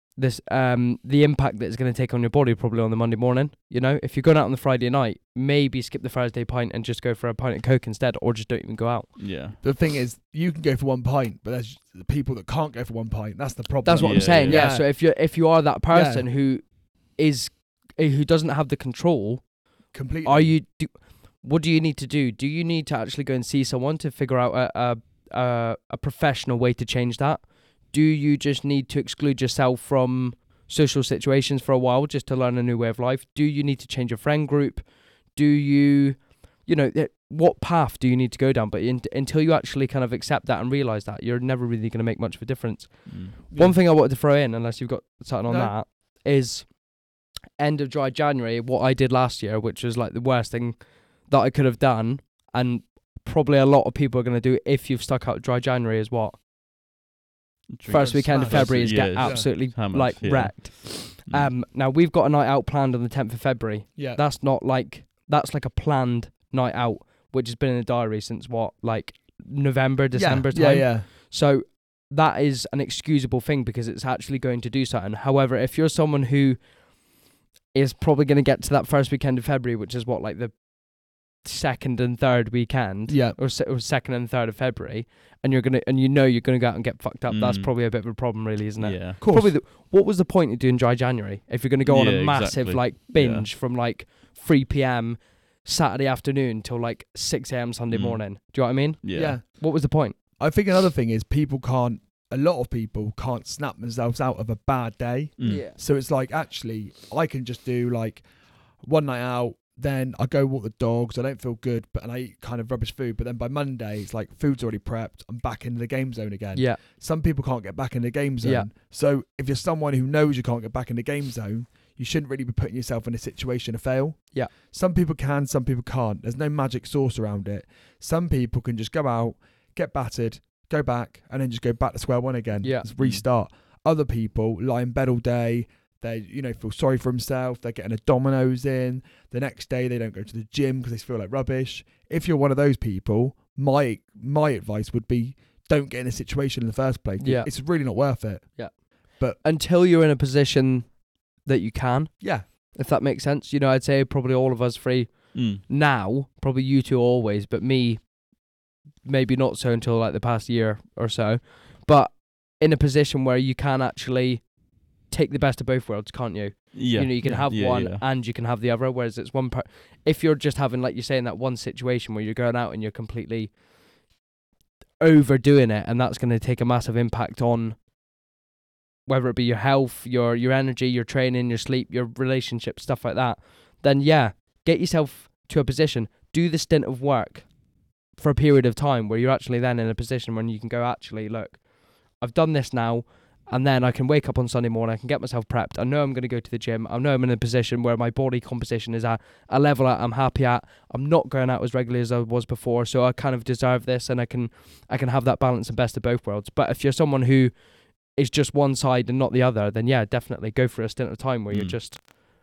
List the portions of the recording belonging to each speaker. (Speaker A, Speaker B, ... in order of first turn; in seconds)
Speaker A: 0.1-9.3, 13.8-19.5, 20.2-46.8, 47.6-56.4, 57.9-76.6, 77.7-100.2, 105.4-105.8, 116.5-116.8, 118.4-118.7, 132.6-132.9, 147.2-147.5, 148.6-158.1, 159.0-164.5, 165.1-173.5, 175.0-177.8, 179.1-187.5, 188.2-191.6, 192.1-207.5, 208.1-212.1
Speaker B: 9.2-9.6, 14.0-14.7, 43.1-43.3, 57.7-61.5, 87.3-87.7, 88.8-89.2, 91.8-93.5, 97.9-98.2, 99.0-99.4, 105.4-105.6, 133.0-133.2, 155.3-155.6, 166.7-168.1, 211.5-211.8
Speaker C: 9.6-15.1, 15.9-16.3, 19.9-20.6, 43.5-43.8, 45.5-45.8, 58.0-59.5, 64.0-64.2, 70.1-71.1, 83.1-83.4, 89.2-89.5, 99.1-99.6, 100.4-108.2, 108.8-149.4, 152.2-152.4